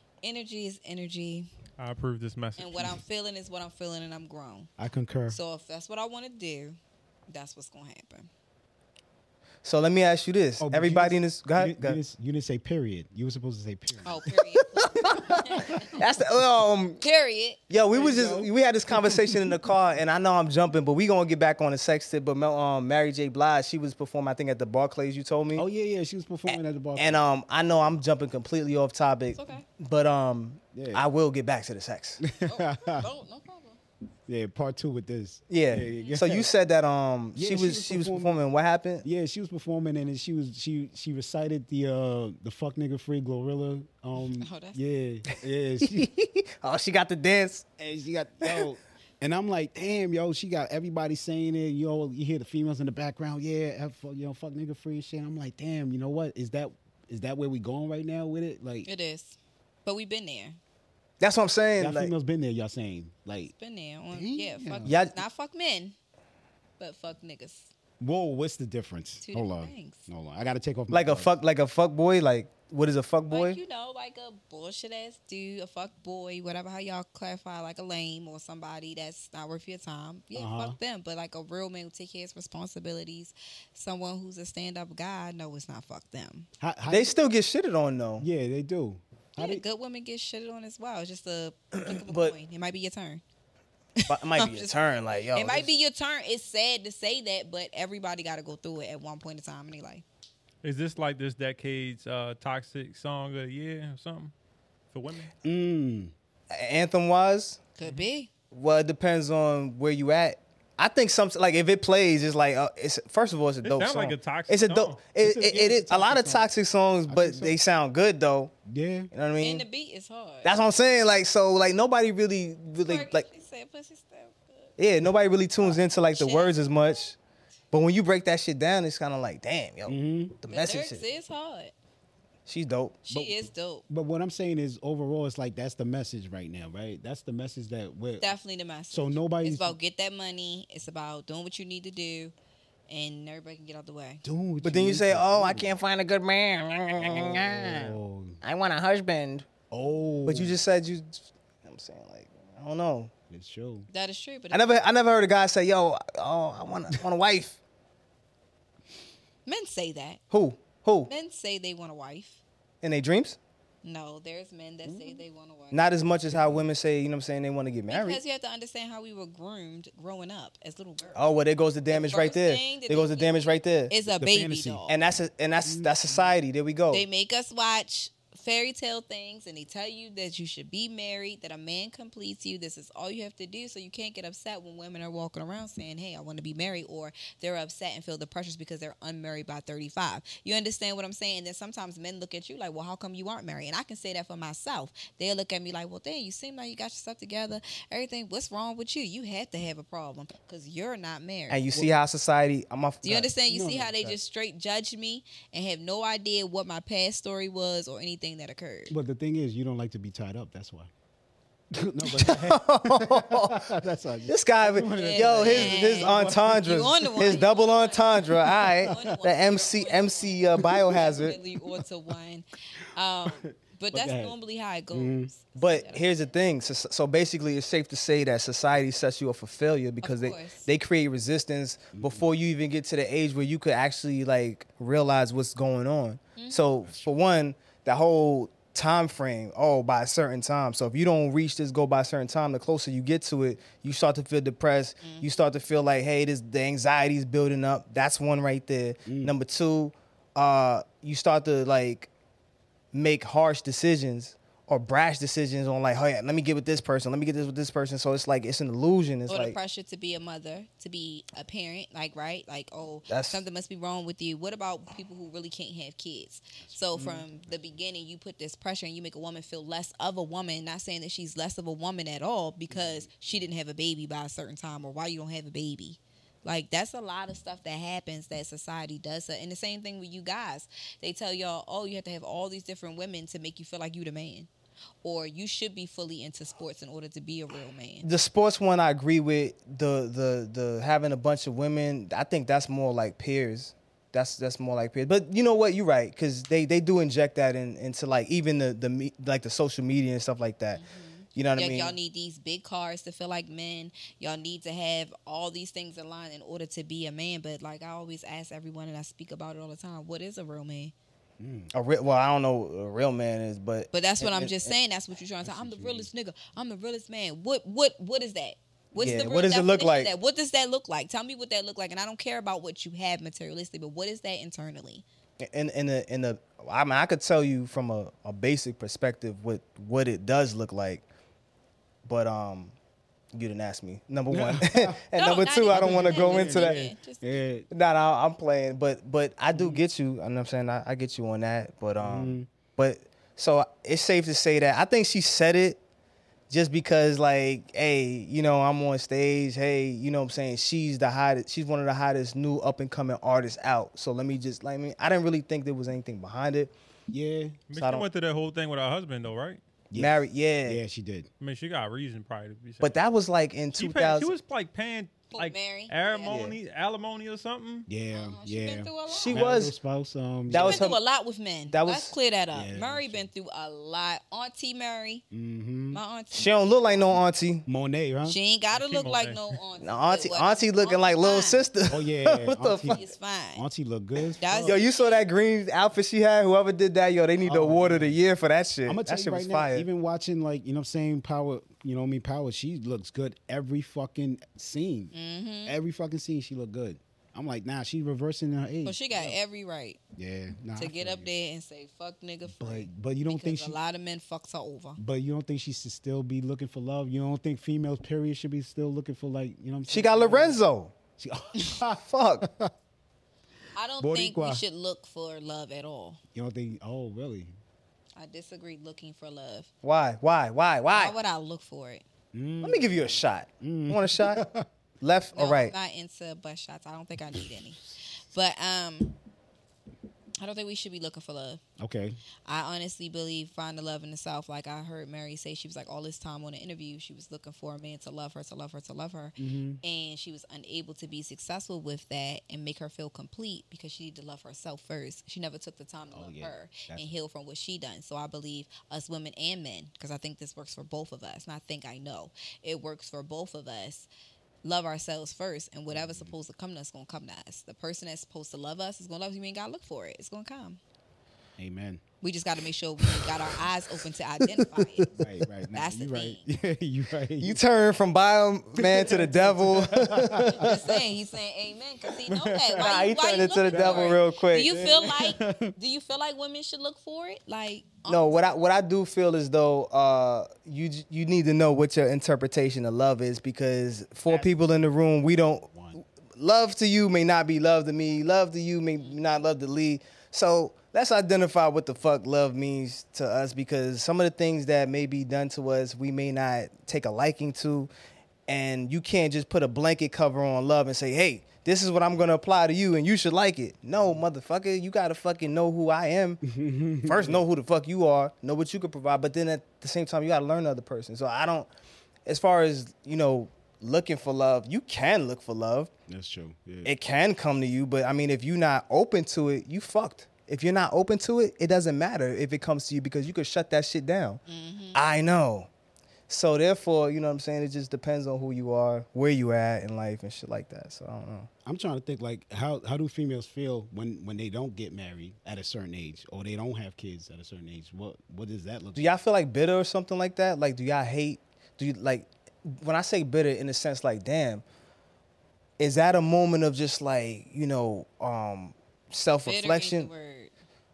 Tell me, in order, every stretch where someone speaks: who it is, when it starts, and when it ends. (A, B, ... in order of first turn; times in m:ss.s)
0:00.2-0:01.5 A
0:01.8-0:03.0 B
0:02.6-0:04.7 A
0:04.8-0:05.4 C
0:05.3-0:06.8 A
0:07.3-0:08.3 A
0:09.6-0:12.0 D
0:10.6-0:14.4 C
0:14.0-0:16.0 A
0:14.8-0:17.0 D
0:15.0-0:15.5 C
0:17.0-0:17.6 A
0:17.7-0:25.6 D
0:17.9-0:19.5 C
0:25.6-0:27.2 C
0:26.5-0:32.2 D
0:29.3-0:29.7 A
0:30.7-0:31.0 C
0:32.2-0:33.1 C
0:32.4-0:33.8 A
0:34.3-0:36.5 C
0:35.5-0:39.0 D
0:35.9-0:36.2 A
0:37.3-0:38.4 C
0:39.0-0:46.1 C
0:44.2-0:44.8 A
0:45.8-0:47.7 D
0:47.8-0:58.9 C
0:58.8-1:00.6 A
1:01.2-1:02.1 D
1:01.8-1:03.5 C
1:03.6-1:06.0 A
1:04.1-1:05.0 C
1:04.8-1:05.2 D
1:06.8-1:07.7 A
1:08.0-1:11.3 C
1:09.2-1:10.1 A
1:10.9-1:13.6 D
1:13.3-1:26.5 A
1:20.3-1:20.8 C
1:26.6-1:27.1 C
1:26.9-1:28.3 D
1:28.2-1:29.6 C
1:29.4-1:33.2 A
1:31.8-1:32.4 D
1:34.0-1:34.7 A
1:34.1-1:35.7 D
1:35.3-1:40.0 A
1:40.6-1:44.3 B
1:44.9-1:45.3 B
1:45.4-1:46.1 C
1:46.5-1:47.6 D
1:47.8-1:48.3 A
1:48.5-1:58.5 D
1:53.6-1:55.0 B
1:55.2-1:56.5 C
1:57.1-1:57.6 C
1:58.7-1:59.1 C
1:59.1-1:59.6 D
1:59.4-2:00.5 A
2:00.4-2:03.3 D
2:02.8-2:04.8 A
2:04.8-2:07.2 D
2:06.1-2:06.6 A
2:07.7-2:11.0 D
2:09.9-2:10.4 C
2:10.5-2:11.7 A
2:12.5-2:13.0 D
2:13.1-2:13.8 A
2:13.1-2:18.3 C
2:18.2-2:22.3 A
2:18.9-2:19.8 C
2:22.9-2:24.2 A
2:24.2-2:25.7 C
2:24.6-2:29.5 D
2:27.0-2:28.4 C
2:29.7-2:30.6 C
2:30.2-2:33.1 D
2:33.3-2:33.9 C
2:33.9-2:34.7 A
2:34.5-2:37.6 D
2:39.5-2:40.2 A
2:40.3-2:41.1 D
2:41.1-2:42.4 A
2:42.8-2:43.4 D
2:43.8-2:45.9 A
2:44.8-2:45.2 C
2:45.7-2:48.2 D
2:46.3-2:46.6 C
2:47.9-2:51.2 A
2:51.2-2:53.9 D
2:51.9-2:54.9 A
2:54.1-2:55.0 C
2:54.9-2:57.1 D
2:55.6-2:56.4 C
2:56.9-3:21.6 A
3:21.5-3:23.3 D
3:23.0-3:28.9 A
3:23.5-3:24.2 C
3:28.9-3:30.9 C
3:31.7-3:37.4 C
3:32.1-3:33.6 D
3:34.3-3:41.4 D
3:35.0-3:46.3 A
3:38.4-3:39.0 C
3:40.6-3:41.1 C
3:43.3-3:44.4 C
3:44.9-3:45.3 C
3:45.6-4:12.1 D
3:50.0-3:50.7 A
3:51.9-3:52.3 C
3:56.4-3:56.6 A
3:56.8-3:57.2 C
4:05.0-4:05.3 A
4:09.1-4:09.3 C
4:12.9-4:19.6 D
4:19.3-4:44.5 A
4:23.1-4:23.4 D
4:26.6-4:27.8 C
4:32.7-4:33.4 C
4:45.0-4:48.1 A
4:48.0-5:00.8 D
5:00.7-5:10.9 A
5:01.4-5:02.0 D
5:11.4-5:11.7 C
5:11.7-5:14.7 D
5:13.9-5:25.0 A
5:15.4-5:16.1 C
5:19.0-5:20.1 D
5:25.4-5:31.0 D
5:32.0-5:32.7 D
5:33.3-5:36.8 D
5:34.3-5:35.0 C
5:35.1-5:37.4 A
5:35.7-5:37.7 C
5:37.7-5:45.8 D
5:39.5-5:39.8 C
5:42.0-5:42.5 C
5:46.5-5:56.7 D
5:57.1-5:57.6 C
5:57.7-5:59.6 B
5:57.8-5:58.1 D
5:59.9-6:01.3 C
6:00.0-6:00.8 D
6:01.4-6:03.0 B
6:02.8-6:04.3 D
6:03.8-6:07.9 B
6:05.3-6:06.3 A
6:06.3-6:06.6 D
6:07.9-6:10.9 C
6:08.1-6:09.5 A
6:09.1-6:09.7 D
6:10.5-6:11.0 D
6:10.5-6:15.2 A
6:11.7-6:12.1 D
6:12.5-6:13.3 C
6:15.3-6:16.0 C
6:15.9-6:16.5 A
6:16.4-6:17.6 D
6:17.7-6:18.4 C
6:18.3-6:21.6 A
6:18.7-6:19.4 B
6:19.8-6:23.0 D
6:21.9-6:23.0 C
6:22.9-6:23.7 A
6:23.6-6:24.8 C
6:24.4-6:25.3 A
6:24.6-6:29.9 D
6:27.4-6:28.2 C
6:28.9-6:35.1 C
6:35.1-6:35.8 A
6:35.7-6:39.4 C
6:38.8-6:40.0 A
6:40.2-6:41.3 C
6:40.8-6:45.0 A
6:42.5-6:43.8 C
6:45.0-6:50.6 C
6:49.9-6:50.9 D
6:51.2-6:52.7 C
6:52.0-6:52.5 D
6:53.8-6:56.2 A
6:54.0-6:54.6 C
6:56.4-6:57.5 C
6:58.2-6:59.7 A
6:59.8-7:01.2 D
7:00.9-7:02.0 A
7:02.3-7:04.7 C
7:02.6-7:04.5 D
7:05.0-7:05.7 D
7:05.3-7:09.2 A
7:10.4-7:11.6 A
7:11.8-7:12.2 C
7:12.5-7:34.1 A
7:19.4-7:19.8 C
7:26.1-7:27.1 C
7:34.6-7:40.8 A
7:35.9-7:36.3 C
7:41.6-7:42.0 C
7:42.2-7:45.1 A
7:44.8-7:45.1 D
7:45.1-7:47.6 C
7:45.7-7:46.4 A
7:47.4-7:50.9 D
7:48.8-7:50.8 C
7:50.5-7:58.6 A
7:52.3-7:53.0 C
7:52.7-7:55.1 D
7:53.7-7:55.7 C
7:58.1-8:05.7 D
8:04.3-8:04.5 C
8:05.7-8:06.0 C
8:06.4-8:17.9 D
8:18.5-8:26.4 D
8:24.0-8:24.2 C
8:26.4-8:27.4 C
8:27.0-8:31.7 D
8:32.3-8:35.9 D
8:36.1-8:36.9 C
8:36.8-8:44.4 D
8:44.5-8:45.0 A
8:44.9-8:45.7 D
8:46.3-8:51.5 D
8:51.6-8:59.1 C
8:59.0-9:04.6 D
9:05.8-9:10.1 D
9:09.4-9:10.5 A